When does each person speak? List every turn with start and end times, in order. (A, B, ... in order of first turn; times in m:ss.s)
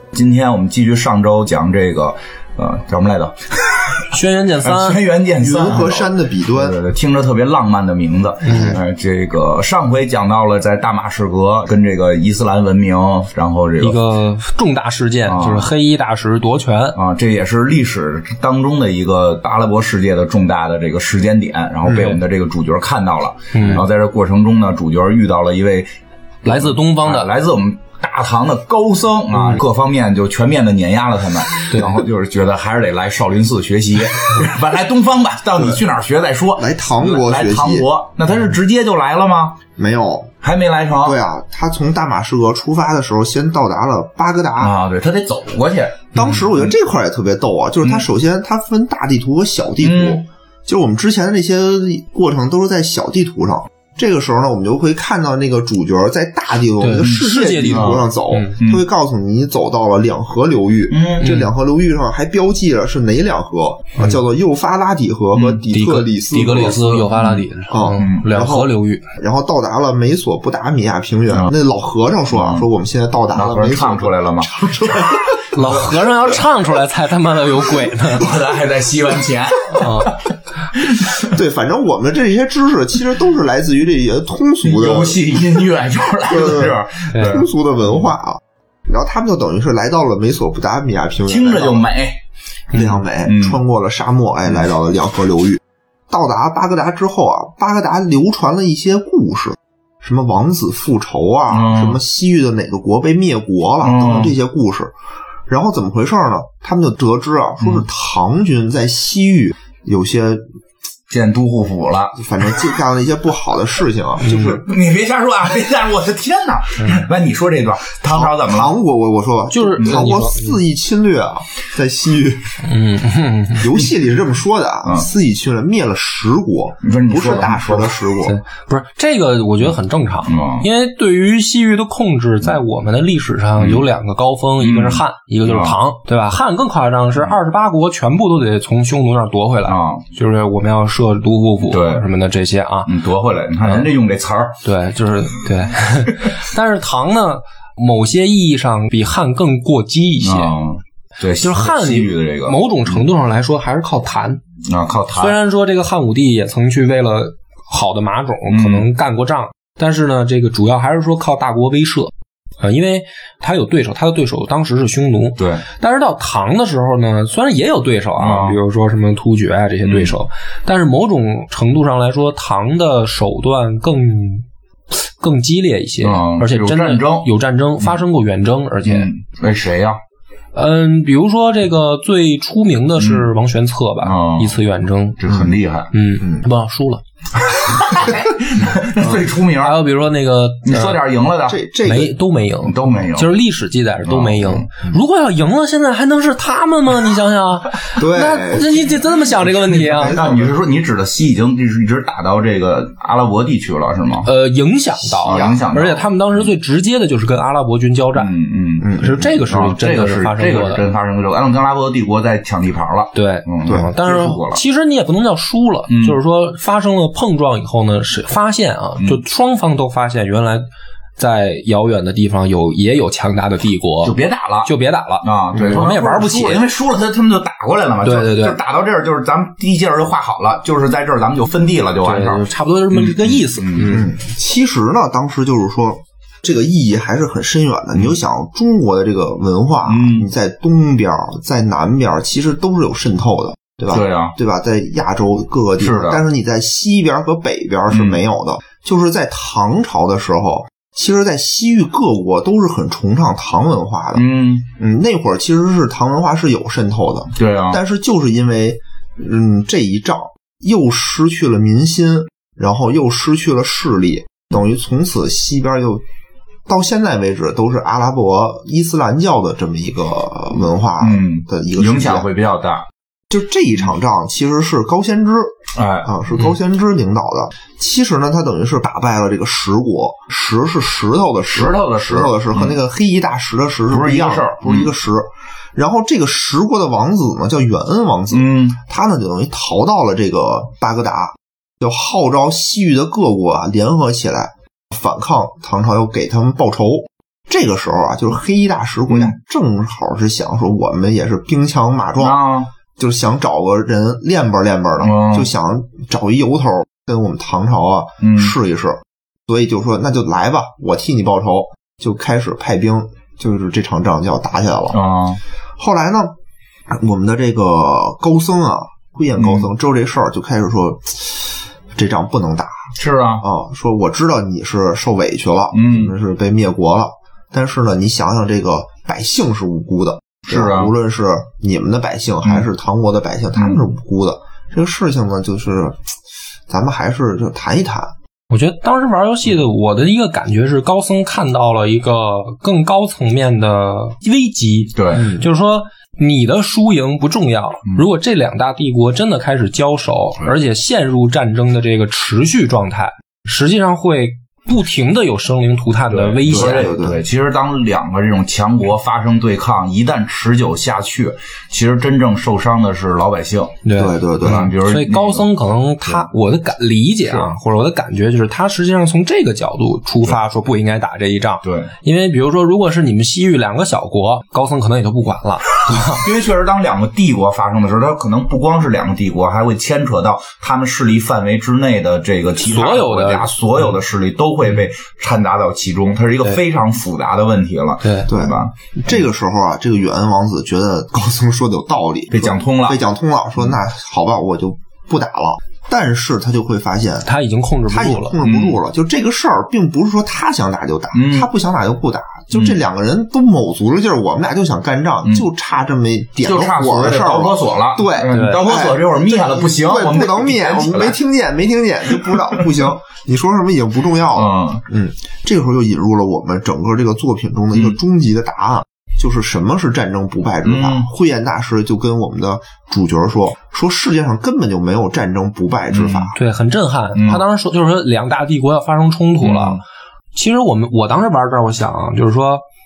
0:00.1-0:14.0 A
0:04.1-0:05.0 B
0:05.4-0:06.8 C
0:08.4-0:08.8 B
0:08.5-0:08.8 C
0:13.8-0:17.0 B
0:15.3-0:15.7 A
0:17.0-0:25.9 A
0:21.9-0:22.2 C
0:23.5-0:23.9 B
0:26.4-0:27.3 B
0:26.5-0:39.6 A
0:29.3-0:29.6 B
0:31.7-0:32.0 B
0:36.6-0:37.9 C
0:39.8-0:40.3 C
0:40.4-0:41.2 A
0:41.0-0:44.7 C
0:44.6-0:46.7 A
0:46.1-1:07.2 C
0:49.8-0:50.2 A
0:56.8-0:58.6 B
0:57.0-0:58.1 A
0:58.6-0:58.8 A
1:00.9-1:01.3 A
1:01.2-1:01.5 B
1:05.3-1:05.6 A
1:05.7-1:09.0 B
1:07.7-1:15.4 C
1:08.0-1:08.3 A
1:12.3-1:12.7 A
1:13.3-1:16.0 A
1:15.5-1:18.3 B
1:17.9-1:20.2 A
1:19.7-1:20.1 B
1:20.8-1:21.3 A
1:21.2-1:25.4 C
1:24.6-1:28.1 A
1:26.3-1:31.9 C
1:27.1-1:27.4 B
1:31.3-1:32.2 A
1:32.7-1:44.9 C
1:33.2-1:33.6 A
1:41.5-1:42.0 A
1:43.8-1:44.4 A
1:45.5-1:50.5 C
1:51.1-1:52.7 A
1:52.2-1:54.7 C
1:54.2-1:54.6 B
1:54.3-1:58.7 A
1:56.8-1:57.1 B
1:58.1-2:02.6 C
1:59.5-2:00.6 B
2:02.6-2:03.9 B
2:03.6-2:08.4 C
2:06.8-2:08.0 A
2:08.2-2:22.9 B
2:10.3-2:10.7 A
2:13.6-2:13.9 A
2:14.6-2:15.8 A
2:19.7-2:20.0 A
2:21.7-2:22.1 A
2:22.9-2:24.6 A
2:24.6-2:30.5 B
2:30.2-2:33.0 A
2:31.4-2:34.4 B
2:34.7-2:35.4 A
2:35.1-2:59.1 B
2:38.5-2:38.9 A
2:45.4-2:45.6 A
2:48.2-2:48.6 A
2:49.8-2:50.2 A
2:56.0-2:57.3 A
2:58.8-3:00.0 A
3:00.5-3:05.2 B
3:03.0-3:03.3 A
3:04.0-3:04.6 A
3:05.2-3:05.9 A
3:05.9-3:07.0 B
3:07.5-3:09.8 A
3:09.6-3:11.0 B
3:10.6-3:11.6 A
3:11.5-3:12.2 C
3:11.8-3:20.2 B
3:12.6-3:13.4 A
3:14.0-3:14.7 A
3:18.0-3:20.5 C
3:19.7-3:24.3 A
3:24.2-3:28.3 B
3:25.2-3:26.1 A
3:25.3-3:25.6 C
3:28.2-3:34.6 A
3:28.8-3:29.3 C
3:29.0-3:30.8 B
3:33.1-3:40.7 B
3:33.7-3:34.3 C
3:35.9-3:36.2 A
3:41.2-3:46.6 B
3:44.0-3:44.7 A
3:45.2-3:54.0 A
3:45.5-3:45.8 C
3:48.0-3:48.6 B
3:52.0-3:54.1 B
3:53.9-4:26.0 C
3:59.9-4:00.3 A
4:03.9-4:04.3 A
4:05.8-4:06.2 A
4:07.9-4:08.2 A
4:14.2-4:14.7 A
4:17.4-4:17.8 A
4:26.7-4:32.3 C
4:31.0-4:32.9 A
4:33.3-5:02.4 C
4:35.8-4:36.4 A
4:41.5-4:42.8 A
4:43.9-4:44.9 A
4:48.3-4:48.8 A
4:59.1-4:59.4 A
5:02.2-5:02.7 A
5:03.0-5:15.0 C
5:05.0-5:05.5 A
5:08.2-5:08.6 A
5:14.9-5:15.4 A
5:15.8-5:16.3 C
5:16.9-5:36.1 C
5:19.4-5:19.7 A
5:23.0-5:23.4 A
5:25.7-5:26.1 A
5:30.5-5:30.9 A
5:36.7-5:38.2 C
5:38.5-5:57.0 B
5:45.0-5:45.3 A
5:45.1-5:45.5 C
5:56.1-6:03.8 A
5:56.5-5:57.2 C
6:03.8-6:16.3 B
6:04.0-6:04.7 C
6:04.4-6:05.5 A
6:07.3-6:07.5 A
6:11.6-6:11.9 A
6:15.9-6:28.7 A
6:22.6-6:23.5 B
6:28.0-6:28.3 B
6:28.3-6:37.3 C
6:32.3-6:33.0 A
6:37.2-6:38.4 B
6:37.9-7:06.3 C
6:38.4-6:38.8 A
6:41.1-6:41.5 A
6:46.4-6:51.2 A
6:48.3-6:48.6 B
6:52.1-6:52.8 A
6:54.4-6:54.8 A
7:00.6-7:01.1 A
7:05.9-7:06.3 A
7:06.3-7:09.8 B
7:07.2-7:07.4 A
7:09.4-7:09.8 A
7:10.4-7:12.6 B